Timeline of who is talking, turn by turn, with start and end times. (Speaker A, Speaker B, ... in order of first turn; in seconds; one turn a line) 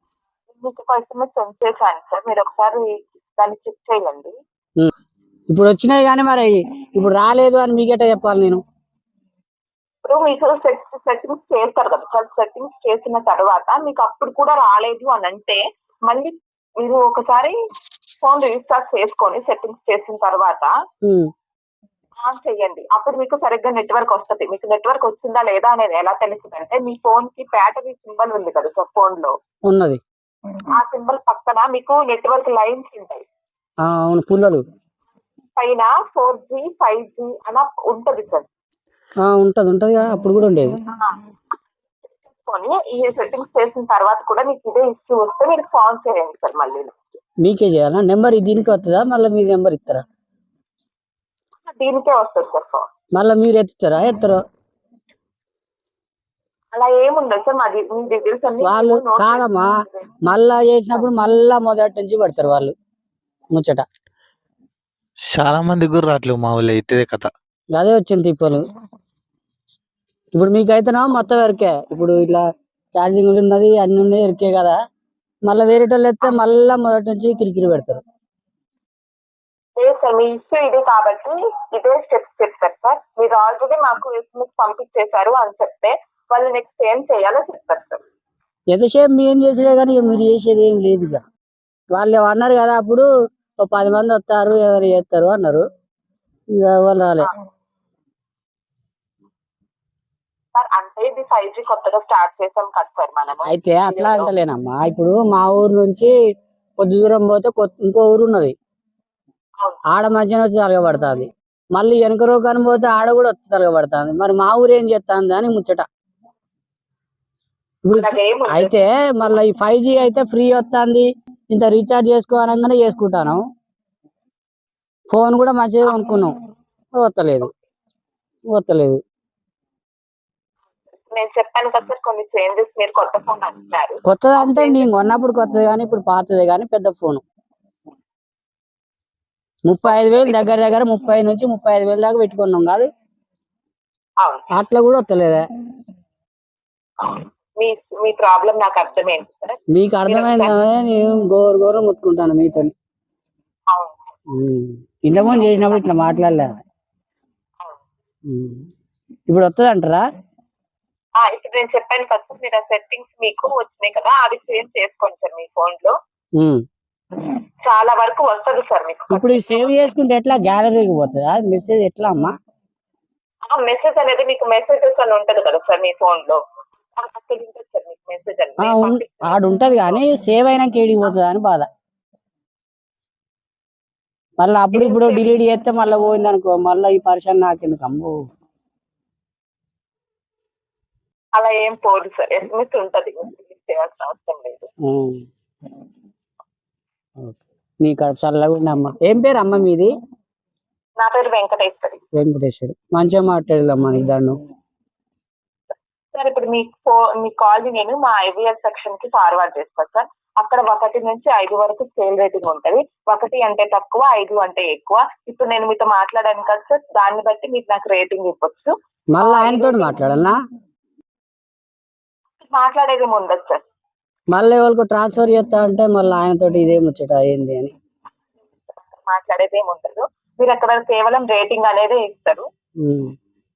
Speaker A: 0.5-4.3
Speaker B: 5.5-8.6
Speaker A: 10.0-17.6
Speaker A: 18.2-20.7
Speaker A: 22.2-29.3
Speaker B: 29.7-30.0
Speaker A: 30.8-33.2
Speaker B: 33.8-34.6
Speaker A: 35.6-38.5
Speaker B: 39.2-40.8
Speaker A: 42.1-46.9
Speaker B: 47.4-50.0
Speaker A: 51.7-52.9
Speaker B: 53.2-54.4
Speaker A: 56.7-60.2
Speaker B: 58.6-62.7
Speaker B: 63.5-63.8
Speaker C: 65.3-67.3
Speaker B: 67.7-68.6
Speaker B: 70.3-72.4
Speaker B: 73.0-74.7
Speaker B: 75.5-78.0
Speaker A: 79.8-88.0
Speaker B: 88.7-91.2
Speaker B: 91.9-93.1
Speaker B: 93.6-95.6
Speaker B: 96.6-97.3
Speaker A: 100.5-104.3
Speaker B: 103.5-106.1
Speaker B: 106.8-108.5
Speaker B: 109.9-115.8
Speaker B: 117.8-123.4
Speaker A: 117.9-118.7
Speaker B: 125.1-126.3
Speaker B: 127.0-127.5
Speaker B: 128.5-129.0
Speaker A: 131.1-134.9
Speaker B: 134.1-137.2
Speaker B: 139.7-142.8
Speaker A: 139.8-140.5
Speaker B: 144.5-145.4
Speaker A: 147.0-150.5
Speaker B: 149.7-152.7
Speaker A: 153.7-154.0
Speaker B: 154.3-156.5
Speaker B: 158.3-158.7
Speaker B: 159.3-160.0
Speaker A: 161.2-165.9
Speaker B: 166.4-166.6
Speaker A: 167.7-169.8
Speaker B: 169.1-172.3
Speaker A: 173.5-176.4
Speaker A: 176.9-180.0
Speaker B: 178.6-181.7
Speaker B: 184.4-188.2
Speaker A: 184.7-185.2
Speaker A: 191.3-194.7
Speaker B: 194.8-195.2
Speaker B: 197.2-199.9
Speaker A: 201.0-202.0
Speaker B: 202.2-204.4
Speaker A: 206.1-219.9
Speaker B: 219.2-220.3
Speaker A: 222.4-223.6
Speaker B: 224.3-227.7
Speaker A: 228.7-232.4
Speaker B: 232.8-233.1